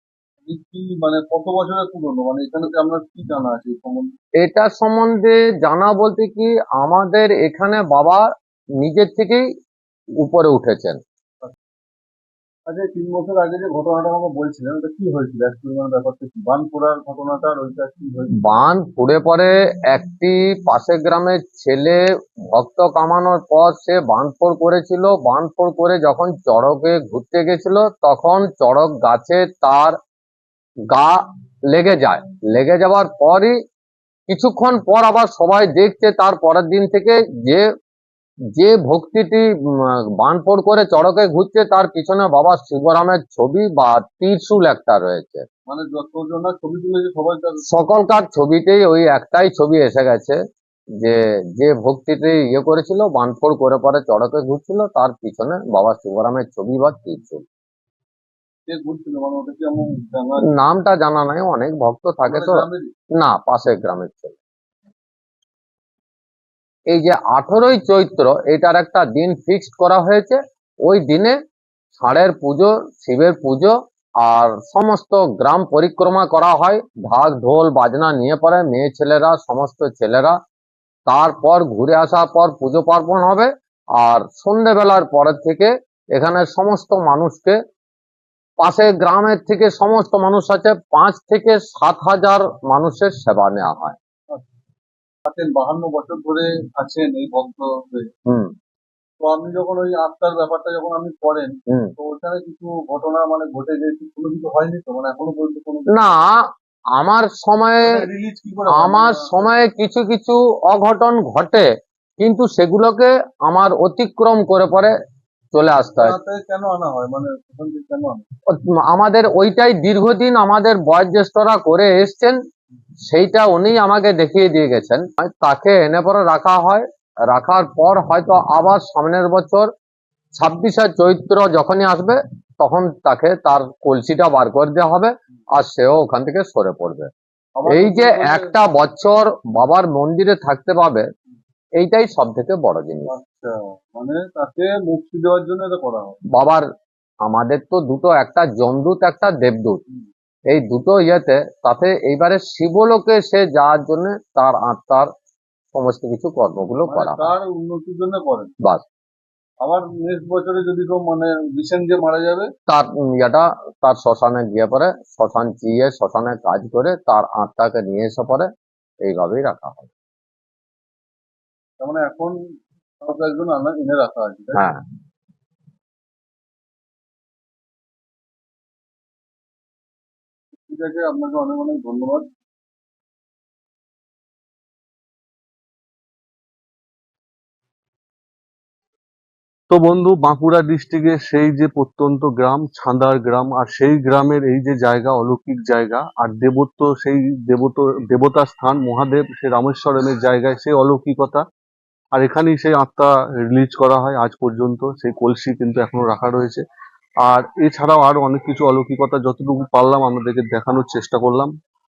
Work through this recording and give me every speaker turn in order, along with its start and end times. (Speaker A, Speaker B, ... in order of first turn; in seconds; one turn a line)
Speaker A: 0.4-4.1
Speaker B: 4.4-8.2
Speaker B: 8.8-9.4
Speaker B: 10.2-11.0
Speaker A: 12.7-18.5
Speaker B: 18.4-29.9
Speaker B: 30.9-31.2
Speaker B: 31.7-33.5
Speaker B: 34.3-37.6
Speaker B: 38.5-45.4
Speaker A: 45.7-47.6
Speaker B: 47.7-50.4
Speaker B: 51.0-57.5
Speaker A: 58.7-60.5
Speaker B: 60.5-62.6
Speaker A: 62.2-62.9
Speaker B: 63.2-64.4
Speaker B: 66.9-71.3
Speaker B: 71.9-80.4
Speaker B: 81.1-87.6
Speaker B: 88.6-94.0
Speaker A: 95.2-98.1
Speaker A: 99.2-105.9
Speaker B: 105.9-106.4
Speaker B: 107.0-108.1
Speaker A: 107.8-109.5
Speaker B: 108.7-111.7
Speaker B: 112.2-114.9
Speaker B: 115.5-116.2
Speaker A: 116.0-118.2
Speaker B: 118.5-122.4
Speaker B: 123.1-129.7
Speaker B: 130.4-137.1
Speaker A: 137.6-138.5
Speaker B: 137.7-141.0
Speaker B: 141.8-143.1
Speaker A: 143.1-146.2
Speaker B: 146.3-146.6
Speaker B: 147.2-149.8
Speaker B: 150.5-155.1
Speaker B: 155.7-157.3
Speaker A: 156.9-158.5
Speaker A: 159.6-162.5
Speaker B: 162.7-168.5
Speaker B: 169.0-169.9
Speaker A: 171.8-172.3
Speaker A: 173.0-174.6
Speaker B: 174.5-174.8
Speaker A: 180.7-182.3
Speaker C: 189.7-201.4
Speaker C: 202.1-206.6
Speaker C: 207.2-211.5